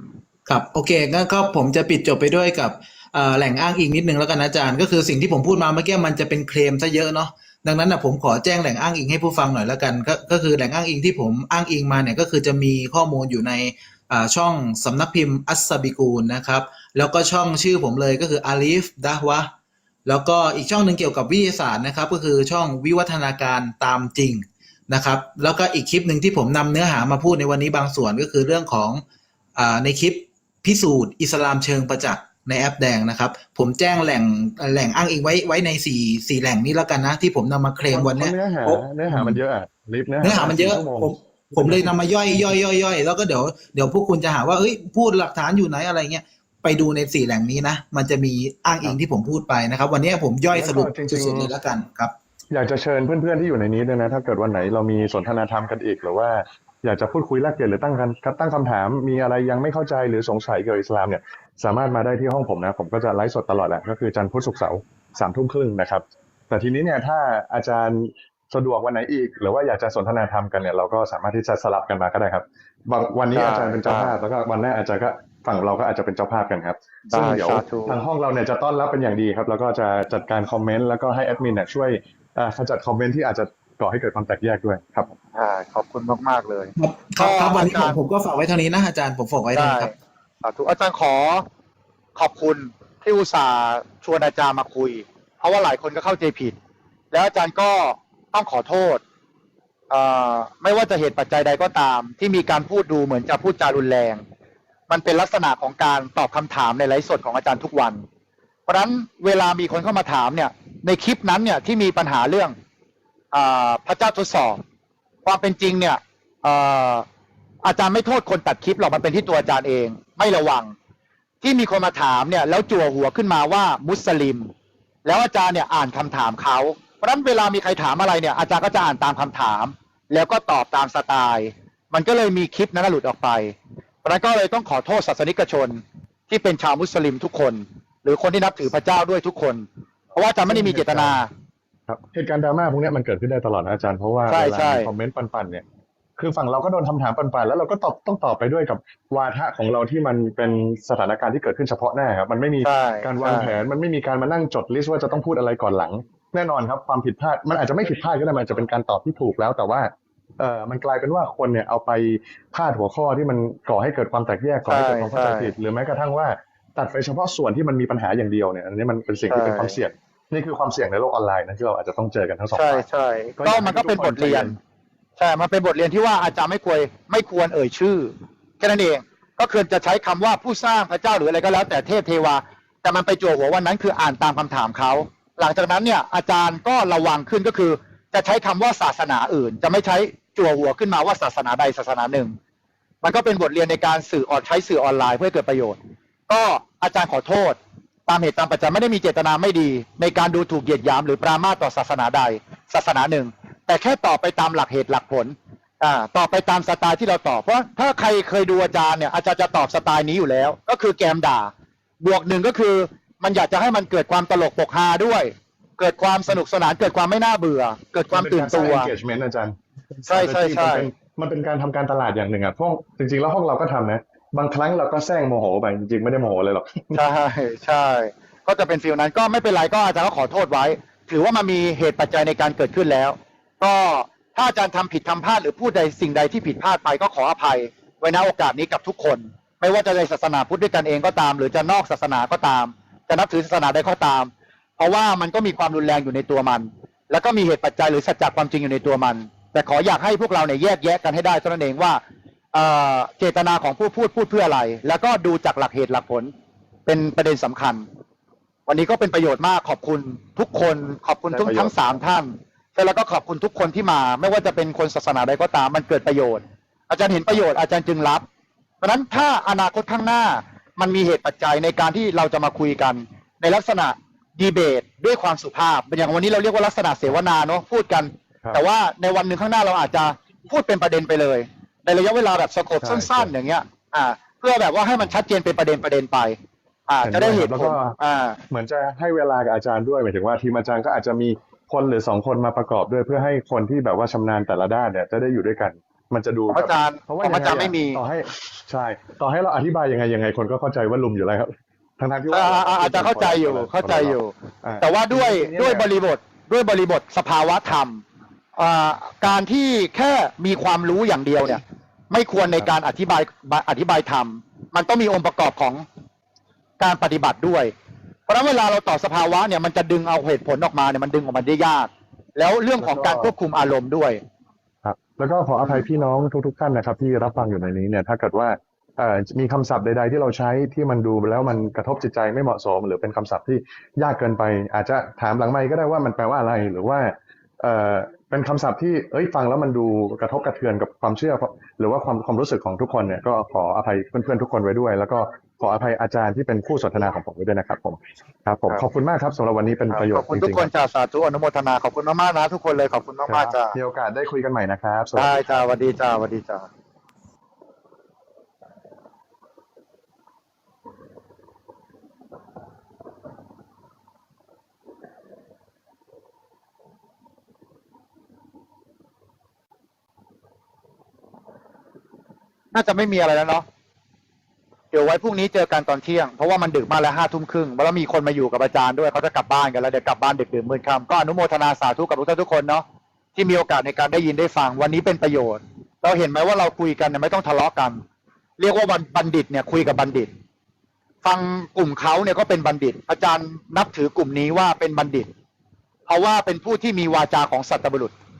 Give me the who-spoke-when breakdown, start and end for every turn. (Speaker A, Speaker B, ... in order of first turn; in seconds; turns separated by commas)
Speaker A: 0.5-19.5, Speaker A: 20.1-29.0, Speaker A: 29.6-39.4, Speaker B: 37.8-41.9, Speaker A: 40.2-52.1, Speaker B: 50.5-51.5, Speaker B: 52.5-85.1, Speaker C: 73.3-74.2, Speaker C: 77.1-78.0, Speaker C: 85.1-88.0, Speaker A: 86.8-89.9, Speaker C: 89.5-89.9, Speaker C: 90.4-91.5, Speaker C: 92.2-96.6, Speaker C: 97.1-99.0, Speaker C: 99.9-104.2, Speaker C: 104.9-108.0, Speaker C: 108.7-112.5, Speaker C: 113.3-114.6, Speaker C: 115.2-117.0, Speaker C: 117.6-120.7, Speaker C: 121.4-124.5, Speaker C: 125.0-141.3, Speaker B: 140.5-141.2, Speaker B: 141.9-145.6, Speaker C: 144.3-144.9, Speaker B: 146.2-172.8, Speaker C: 152.6-153.6, Speaker C: 164.7-165.5, Speaker C: 169.3-169.8, Speaker C: 172.5-174.6, Speaker B: 173.4-174.6, Speaker C: 175.2-192.3, Speaker C: 193.0-218.9, Speaker B: 218.1-227.0, Speaker C: 220.1-220.9, Speaker C: 226.9-252.0, Speaker C: 252.5-256.3, Speaker C: 256.9-257.9, Speaker C: 258.7-268.2, Speaker B: 261.3-261.8, Speaker C: 268.8-286.4, Speaker B: 282.8-283.3, Speaker C: 286.9-288.4, Speaker B: 287.0-288.0, Speaker B: 288.5-305.9, Speaker C: 296.5-298.0, Speaker C: 302.3-308.0, Speaker C: 308.6-315.8, Speaker C: 316.8-317.7, Speaker C: 318.3-324.2, Speaker B: 322.8-323.3, Speaker B: 324.8-350.7, Speaker C: 325.6-325.8, Speaker C: 349.9-353.8, Speaker B: 353.3-355.4, Speaker C: 355.1-356.7, Speaker C: 372.7-373.6, Speaker C: 374.9-382.8, Speaker C: 383.3-388.0, Speaker C: 388.6-390.3, Speaker C: 391.2-395.3, Speaker C: 396.1-398.1